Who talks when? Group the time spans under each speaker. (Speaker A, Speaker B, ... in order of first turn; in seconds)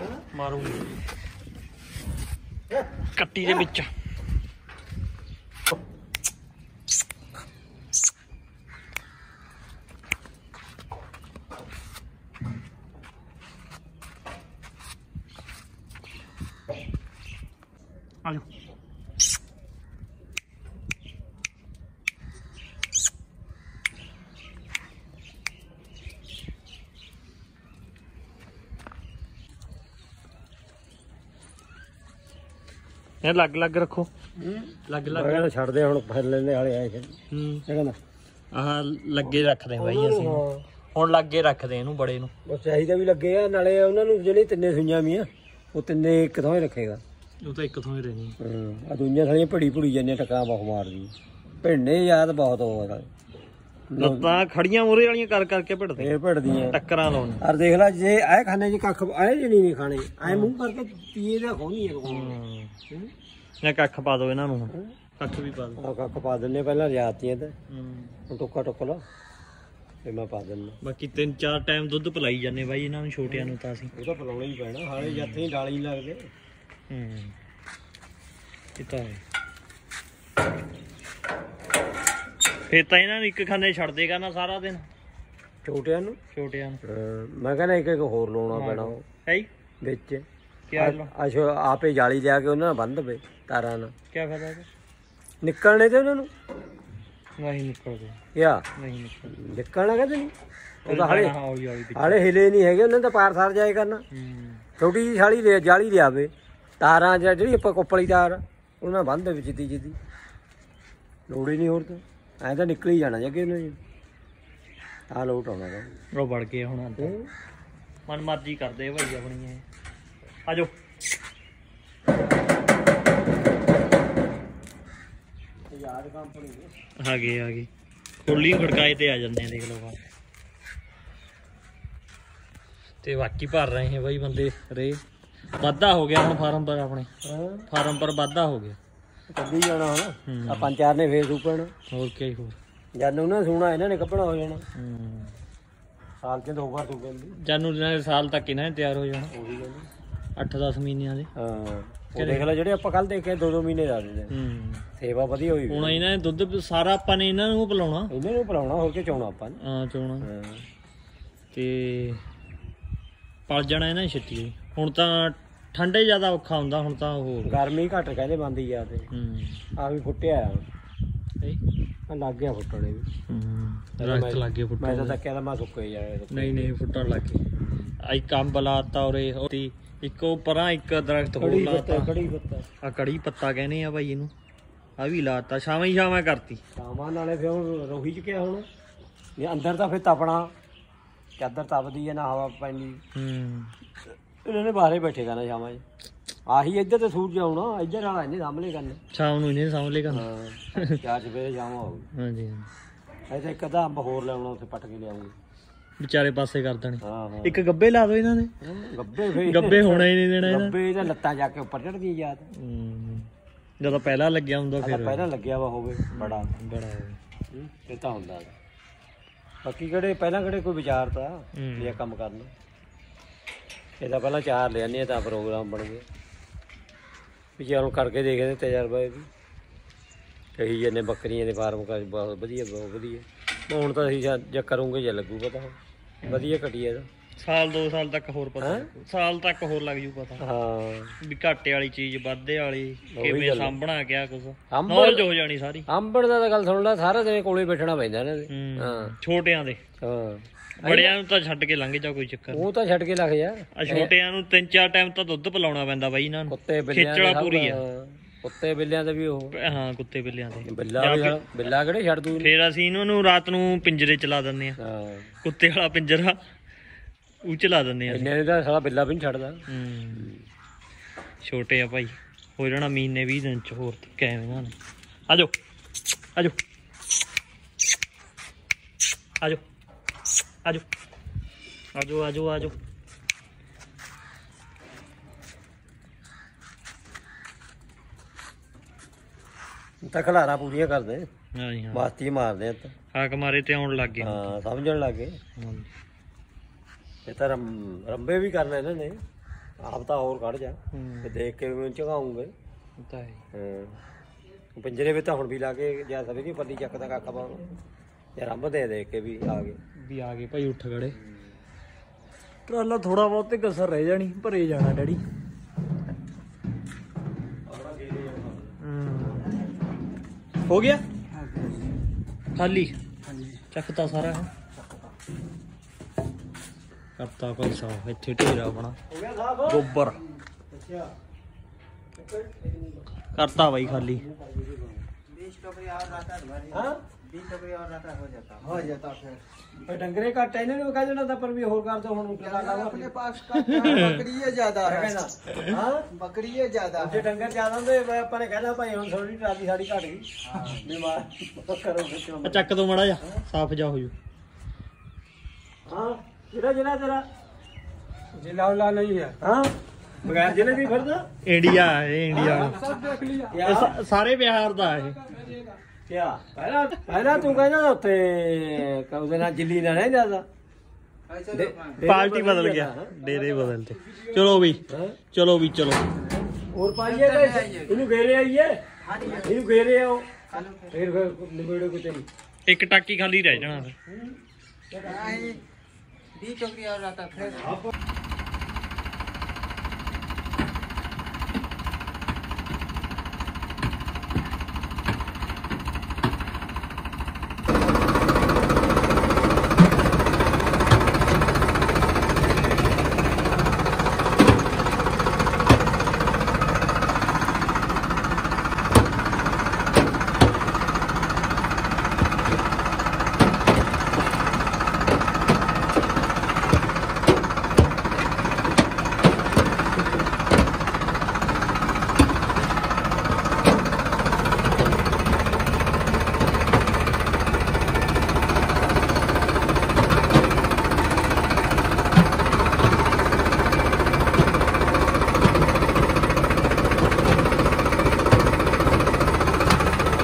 Speaker A: 0.3-0.8, 3.1-3.9, 33.2-34.1, 34.9-35.5, 37.3-37.6, 38.5-42.3, 47.4-48.4, 54.0-56.1, 56.7-57.4, 60.2-60.5, 62.1-62.8, 63.6-65.8, 67.7-68.2, 70.8-73.9, 75.0-75.5, 76.9-77.3, 78.8-79.2, 82.7-84.9, 86.3-86.8, 88.5-89.5, 90.7-91.1, 94.1-94.7, 97.4-98.2, 98.8-99.4, 100.8-102.2, 104.1-104.7, 116.2-117.2, 118.1-119.7, 127.0-127.7, 128.2-130.0, 133.0-135.0, 135.6-137.1, 137.7-138.8, 140.3-140.7, 141.9-142.6, 144.8-145.3, 147.4-149.3, 150.4-151.3, 152.2-152.5, 154.3-154.9, 155.7-158.1, 159.6-160.3, 161.5-162.2, 163.5-167.6, 169.1-169.6, 173.3-175.2, 176.3-177.5, 178.0-182.1, 182.8-184.3, 185.0-186.6, 193.2-193.7, 199.1-200.3, 202.2-202.7, 206.0-208.5, 209.3-210.8, 212.5-215.3, 216.1-217.2, 221.6-222.0, 237.4-240.4, 241.2-245.9, 248.5-249.8, 250.8-252.7, 253.7-257.8, 259.5-261.4, 262.4-264.8, 265.4-266.4, 267.4-268.3, 269.7-270.3, 271.4-274.8, 281.9-282.8, 291.6-292.1, 293.1-294.5, 295.6-295.9, 300.9-301.4, 303.0-303.4, 310.0-311.2, 312.7-315.2, 318.8-319.5, 320.7-321.0, 322.6-322.9, 323.7-324.5, 327.2-329.0, 329.7-330.2, 333.4-334.2, 343.5-344.3, 345.5-345.8, 352.4-354.1, 361.4-362.9, 363.5-365.5, 372.0-376.0, 382.7-383.9
Speaker B: 34.4-37.2, 37.7-38.0, 39.3-40.6, 42.5-47.0, 48.4-53.1, 53.9-54.4, 56.0-56.8, 57.4-62.4, 65.8-67.5, 68.3-69.0, 70.0-70.8, 73.3-76.2, 85.6-86.2, 86.8-89.0, 89.8-90.2, 90.8-93.9, 95.4-96.3, 98.3-98.7, 99.3-100.3, 100.8-101.3, 102.0-104.0, 104.8-110.0, 111.3-113.8, 115.1-115.9, 117.0-117.3, 125.7-126.8, 137.2-137.7, 139.3-141.7, 143.0-144.6, 146.2-147.4, 149.3-149.9, 151.4-154.3, 155.0-156.1, 158.1-159.6, 160.2-160.7, 167.5-169.1, 169.8-170.7, 172.1-173.1, 174.0-176.7, 177.6-177.9, 181.4-182.7, 186.8-188.7, 189.4-190.5, 191.4-193.0, 194.4-195.8, 196.5-199.0, 200.1-202.1, 203.3-205.3, 207.0-207.6, 208.6-212.5, 214.8-216.5, 217.5-218.6, 219.7-222.5, 224.0-226.1, 227.6-229.3, 230.6-237.1, 238.6-238.9, 240.4-241.2, 243.1-243.8, 244.7-245.3, 245.9-249.2, 250.0-251.2, 252.5-254.1, 256.5-259.6, 260.7-262.5, 264.8-265.3, 268.1-269.6, 270.1-270.4, 290.1-291.3, 291.9-292.9, 294.2-295.4, 297.2-299.2, 299.8-302.5, 303.5-304.0, 304.8-307.7, 308.4-309.8, 311.2-311.5, 317.7-318.7, 329.1-329.9, 330.5-331.1, 332.1-333.1, 333.8-335.1, 336.7-337.1, 339.8-343.4, 344.1-346.2, 346.9-352.7, 355.9-357.3, 358.4-361.3, 362.4-364.0, 366.1-370.5, 371.4-373.3, 374.9-375.2, 376.6-382.3, 383.6-384.4, 384.9-385.6
Speaker C: 335.3-339.4, 342.9-344.9, 346.2-347.0, 363.0-363.3, 371.3-371.8, 377.3-377.9, 380.6-380.9, 386.4-387.8